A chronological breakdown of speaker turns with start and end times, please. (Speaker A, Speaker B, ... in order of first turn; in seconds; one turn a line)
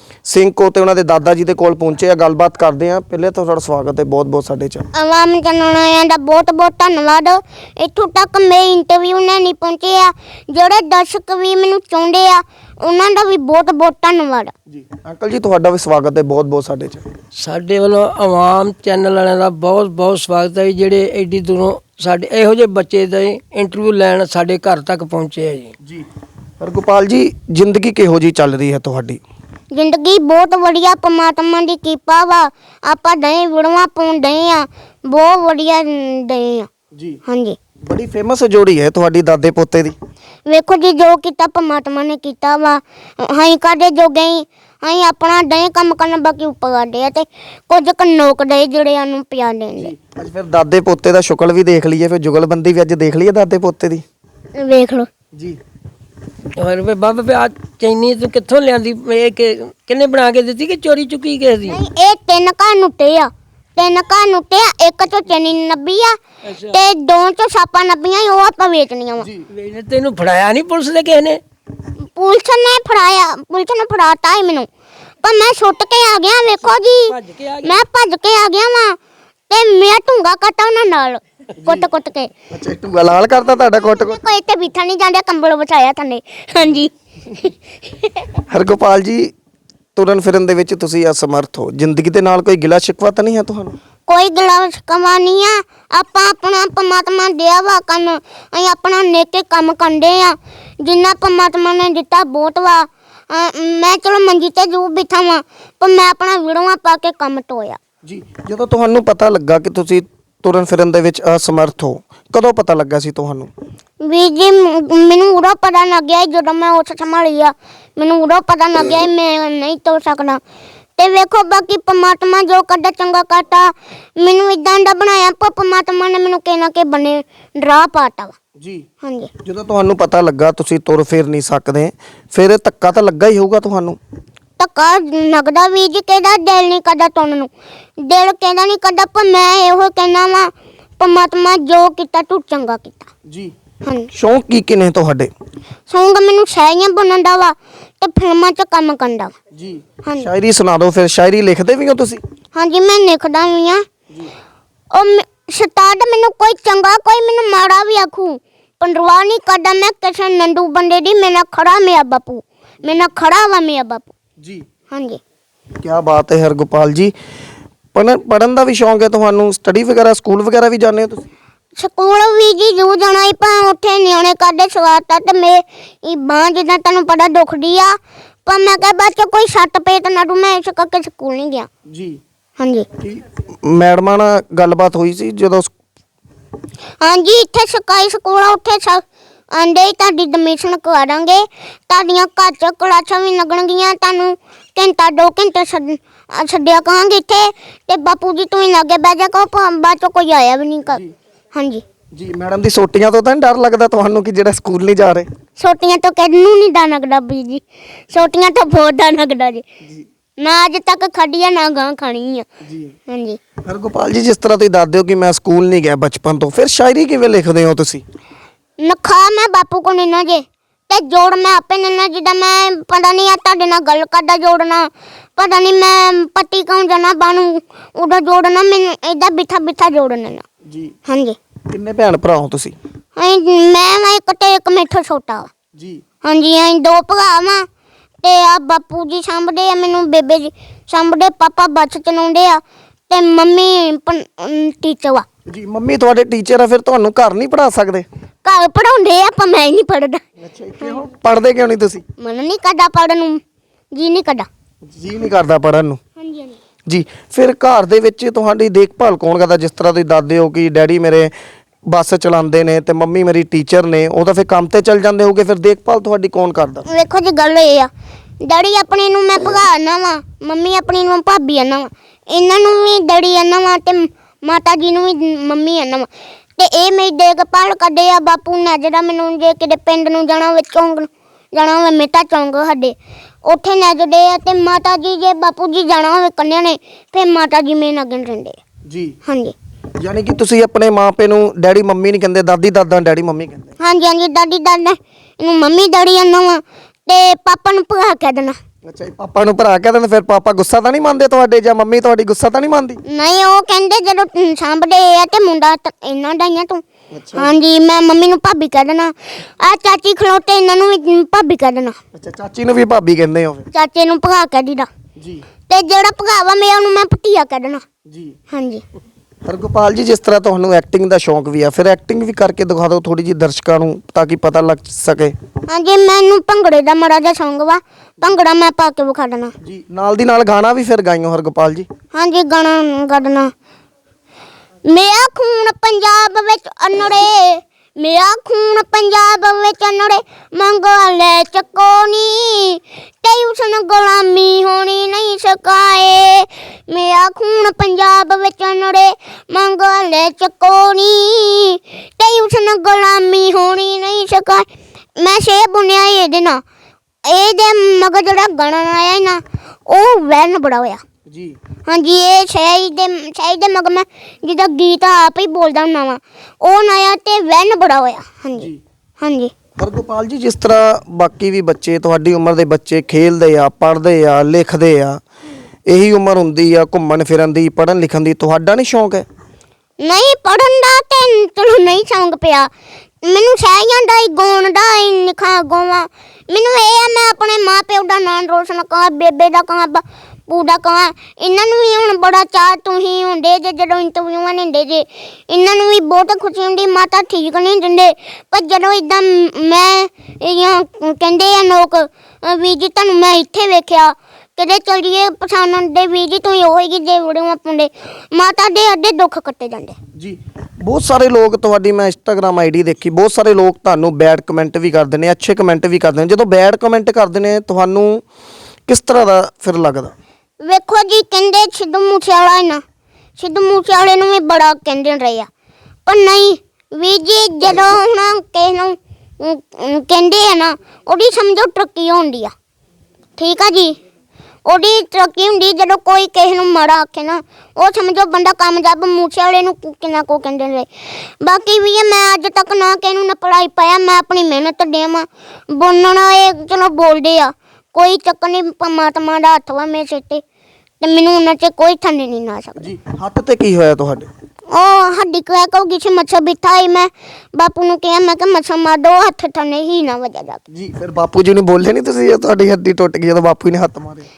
Speaker A: 0.2-4.9
Speaker B: 4.9-14.5
Speaker A: 14.7-17.1
Speaker C: 17.4-25.7
Speaker A: 25.8-26.1
Speaker A: 26.6-29.2
Speaker B: 29.7-36.7
Speaker A: 36.9-37.2
Speaker B: 37.3-37.6
Speaker A: 37.8-40.0
Speaker B: 40.5-49.9
Speaker A: 49.8-54.0
Speaker B: 54.5-55.1
Speaker A: 55.3-55.6
Speaker C: 56.6-61.8
Speaker B: 61.7-69.3
Speaker C: 66.4-66.8
Speaker A: 69.2-69.5
Speaker C: 69.5-71.4
Speaker B: 72.0-74.7
Speaker B: 75.2-79.0
Speaker C: 77.1-77.8
Speaker B: 79.5-82.3
Speaker A: 81.6-81.9
Speaker A: 82.5-84.2
Speaker B: 83.7-88.3
Speaker A: 88.5-89.3
Speaker A: 90.0-93.8
Speaker B: 94.1-107.8
Speaker A: 108.0-113.5
Speaker B: 114.0-120.4
Speaker B: 121.0-128.4
Speaker A: 128.6-128.9
Speaker B: 129.0-129.3
Speaker A: 129.4-134.0
Speaker B: 134.6-143.1
Speaker A: 143.3-143.5
Speaker B: 143.8-144.1
Speaker A: 144.1-145.3
Speaker B: 145.9-149.3
Speaker A: 149.5-152.2
Speaker B: 150.0-150.3
Speaker B: 152.5-153.9
Speaker B: 154.9-164.1
Speaker A: 164.4-164.7
Speaker B: 164.9-165.2
Speaker A: 165.8-167.1
Speaker A: 167.9-171.3
Speaker B: 171.8-181.7
Speaker A: 181.9-182.2
Speaker B: 182.6-182.9
Speaker A: 183.0-185.7
Speaker B: 187.0-201.0
Speaker B: 201.5-201.8
Speaker A: 202.1-205.3
Speaker B: 205.6-209.7
Speaker B: 210.4-212.5
Speaker A: 212.6-212.9
Speaker B: 213.1-213.4
Speaker A: 213.6-218.0
Speaker B: 218.8-230.5
Speaker A: 230.7-230.9
Speaker B: 231.1-231.4
Speaker A: 231.7-232.8
Speaker B: 233.2-235.5
Speaker A: 235.7-236.0
Speaker B: 236.2-237.7
Speaker B: 238.2-245.3
Speaker A: 245.5-248.1
Speaker B: 248.4-250.2
Speaker A: 250.4-252.0
Speaker B: 252.2-254.5
Speaker A: 254.8-256.0
Speaker B: 256.2-256.6
Speaker A: 256.9-261.3
Speaker A: 261.9-266.9
Speaker B: 266.9-267.9
Speaker B: 268.4-288.6
Speaker A: 288.9-289.2
Speaker B: 289.3-289.6
Speaker A: 290.0-293.7
Speaker B: 293.8-298.6
Speaker A: 298.9-303.0
Speaker B: 303.1-306.8
Speaker A: 307.1-307.6
Speaker B: 307.4-312.0
Speaker A: 312.1-313.7
Speaker B: 313.7-314.9
Speaker A: 315.2-315.4
Speaker B: 315.7-317.9
Speaker A: 318.1-318.4
Speaker B: 318.5-318.8
Speaker A: 319.4-325.4
Speaker B: 325.7-329.6
Speaker A: 329.6-331.9
Speaker B: 332.1-333.5
Speaker B: 334.9-356.6
Speaker B: 357.2-361.0
Speaker A: 361.3-361.6
Speaker B: 361.9-369.5
Speaker A: 369.8-375.2
Speaker A: 375.9-379.3
Speaker B: 380.0-382.7
Speaker B: 383.2-410.0
Speaker A: 410.2-418.2
Speaker A: 418.9-420.1
Speaker B: 420.6-422.8
Speaker B: 423.4-425.5
Speaker B: 426.1-432.5
Speaker B: 433.4-434.0
Speaker B: 434.7-450.4
Speaker B: 451.0-452.9
Speaker A: 452.8-454.3
Speaker B: 454.7-460.6
Speaker A: 460.7-464.3